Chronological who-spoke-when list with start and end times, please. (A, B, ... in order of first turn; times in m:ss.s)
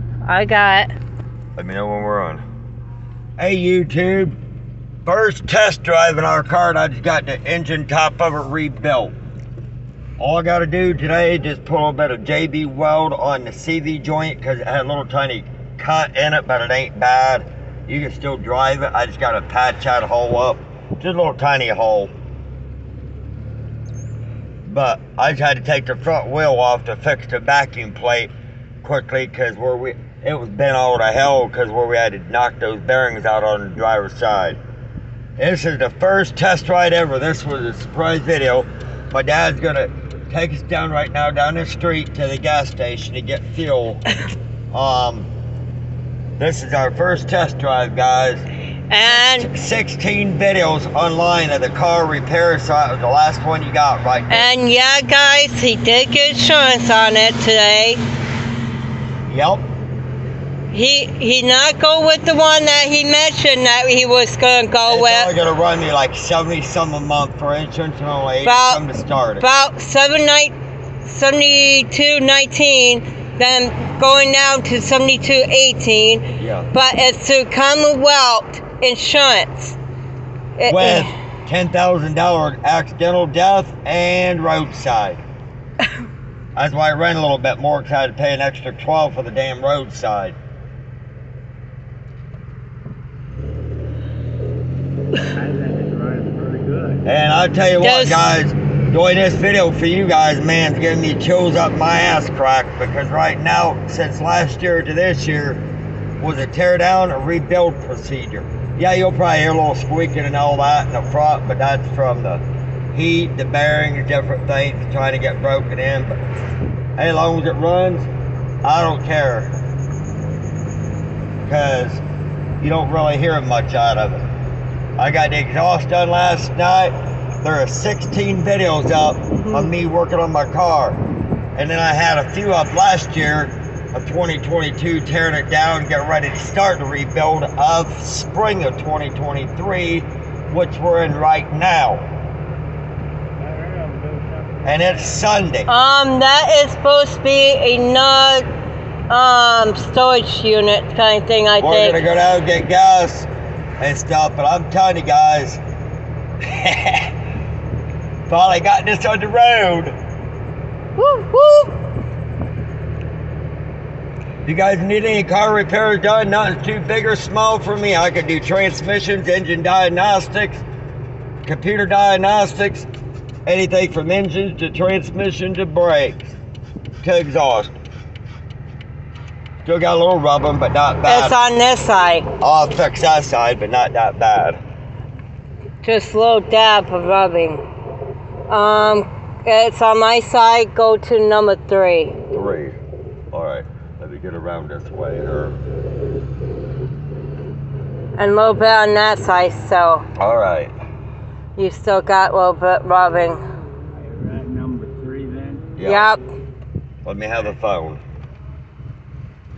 0:00.2-0:00.9 A
0:01.6-0:02.4 B
0:03.4-0:04.4 B
0:05.0-0:09.1 B
0:10.2-0:22.1 B
0:24.7-0:28.3 B
0:28.8-0:34.6 B
0:35.4-0:44.0 B
0:44.7-0:45.3 B
0:46.4-0:48.4 B
0:48.9-0:49.5 A
0:49.0-0:54.5 B
0:54.3-0:58.0 A
0:59.3-0:59.6 B
1:00.7-1:05.3 A
1:04.9-1:09.5 B
1:08.4-1:08.8 A
1:09.4-1:19.8 A
1:16.4-1:16.7 B
1:20.6-1:21.1 A
1:20.7-1:25.2 B
1:26.6-1:30.4 B
1:35.3-1:37.0 C
1:37.0-1:45.6 B
1:37.8-1:38.3 A
1:46.2-1:52.4 B
1:52.9-1:56.2 B
1:57.0-1:58.1 B
1:58.6-1:59.5 B
2:01.4-2:02.0 B
2:02.6-2:04.3 B
2:05.0-2:11.0 B
2:09.4-2:09.7 A
2:11.6-2:22.0 B
2:23.4-2:25.2 C
2:24.6-2:25.7 B
2:25.7-2:28.5 A
2:29.1-2:32.0 A
2:31.6-2:33.3 B
2:33.8-2:35.6 B
2:36.4-2:37.2 B
2:38.3-2:39.9 B
2:41.0-2:41.7 A
2:44.4-2:50.6 B
2:51.4-2:52.9 B
2:53.5-2:56.4 B
2:57.0-2:57.7 B
2:59.6-3:01.4 B
3:01.1-3:02.3 A
3:02.4-3:04.6 B
3:05.8-3:07.6 A
3:08.5-3:12.2 A
3:12.3-3:12.8 B
3:13.3-3:15.6 B
3:18.2-3:20.0 A
3:20.2-3:20.7 B
3:21.6-3:23.4 A
3:24.0-3:25.7 C
3:25.8-3:26.1 B
3:25.8-3:26.2 A
3:27.0-3:28.0 B